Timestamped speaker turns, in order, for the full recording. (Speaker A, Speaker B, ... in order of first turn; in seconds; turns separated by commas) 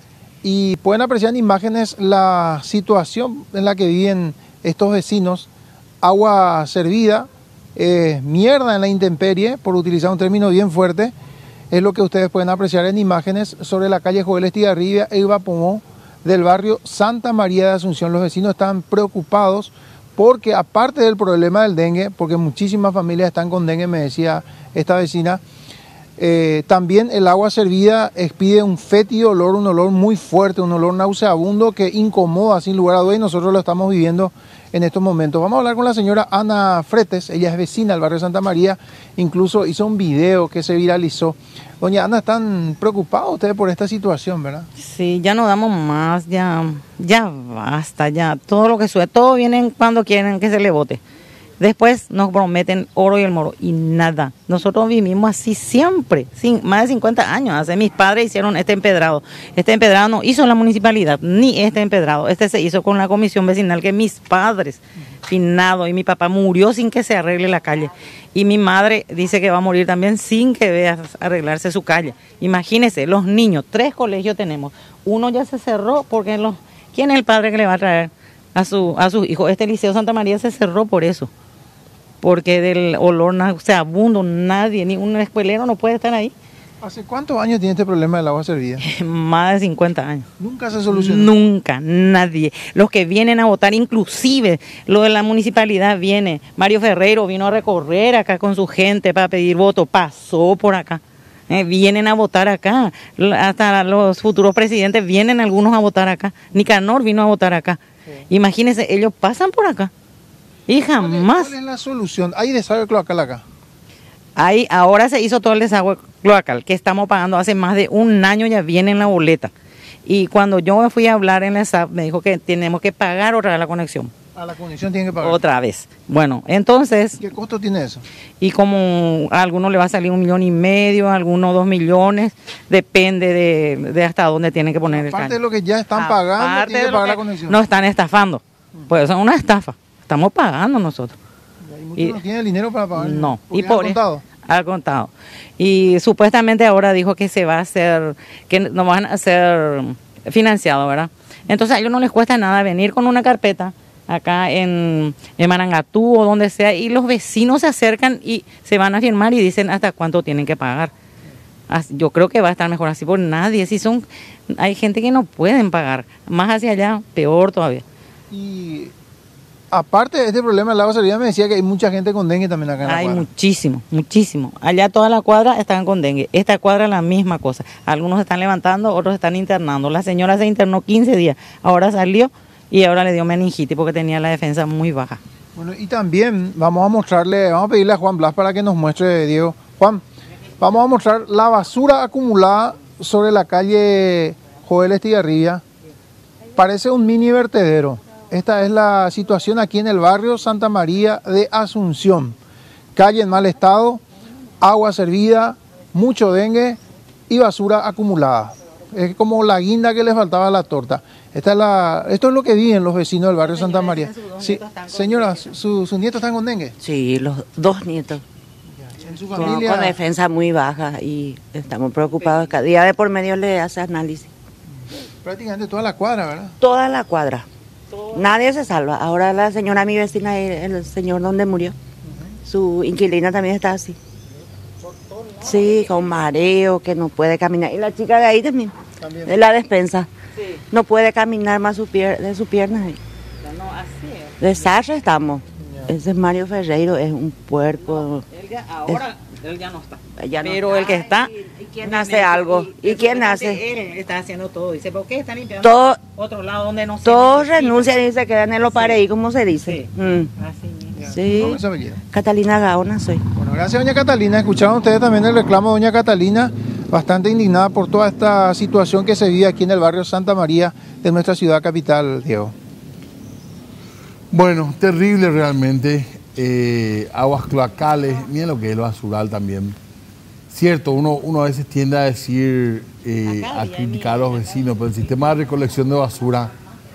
Speaker A: 0.4-5.5, Speaker A: 6.0-11.1, Speaker A: 11.7-25.4, Speaker A: 26.2-44.7, Speaker B: 44.8-51.0, Speaker B: 51.6-81.3, Speaker B: 82.2-86.3, Speaker A: 86.8-88.8, Speaker B: 88.8-90.3, Speaker A: 90.4-91.3, Speaker B: 90.9-109.9, Speaker B: 110.7-111.5, Speaker A: 111.0-113.4, Speaker B: 114.4-119.5, Speaker B: 120.1-124.1, Speaker A: 124.3-125.4, Speaker B: 125.2-127.2, Speaker A: 127.2-128.0, Speaker B: 128.4-135.4, Speaker A: 134.9-137.6, Speaker B: 135.9-141.2, Speaker A: 141.6-144.2, Speaker B: 143.0-160.9, Speaker B: 161.7-167.8, Speaker A: 168.3-168.9, Speaker A: 169.7-173.3, Speaker B: 172.8-185.2, Speaker A: 185.6-190.0, Speaker A: 190.6-195.6, Speaker A: 196.6-202.4, Speaker A: 202.9-204.0, Speaker A: 204.6-216.8, Speaker B: 213.4-215.6, Speaker C: 216.8-218.2, Speaker A: 218.8-220.0, Speaker C: 219.3-224.3, Speaker B: 222.1-222.6, Speaker A: 225.2-226.6, Speaker C: 226.6-227.5, Speaker C: 228.1-231.8, Speaker C: 232.4-234.0, Speaker B: 235.1-236.0, Speaker C: 235.4-240.1, Speaker A: 239.0-239.5, Speaker B: 240.4-240.6, Speaker C: 240.7-243.0, Speaker B: 243.4-244.4, Speaker C: 244.4-248.2, Speaker A: 245.6-245.9, Speaker B: 247.8-257.9, Speaker C: 250.2-251.1, Speaker C: 251.8-253.6, Speaker C: 255.6-256.0, Speaker C: 257.0-260.3, Speaker B: 258.7-259.0, Speaker B: 259.6-261.2, Speaker C: 261.1-263.2, Speaker A: 261.3-262.0, Speaker A: 263.4-272.5, Speaker D: 274.3-279.8, Speaker D: 280.5-286.5, Speaker B: 283.2-285.5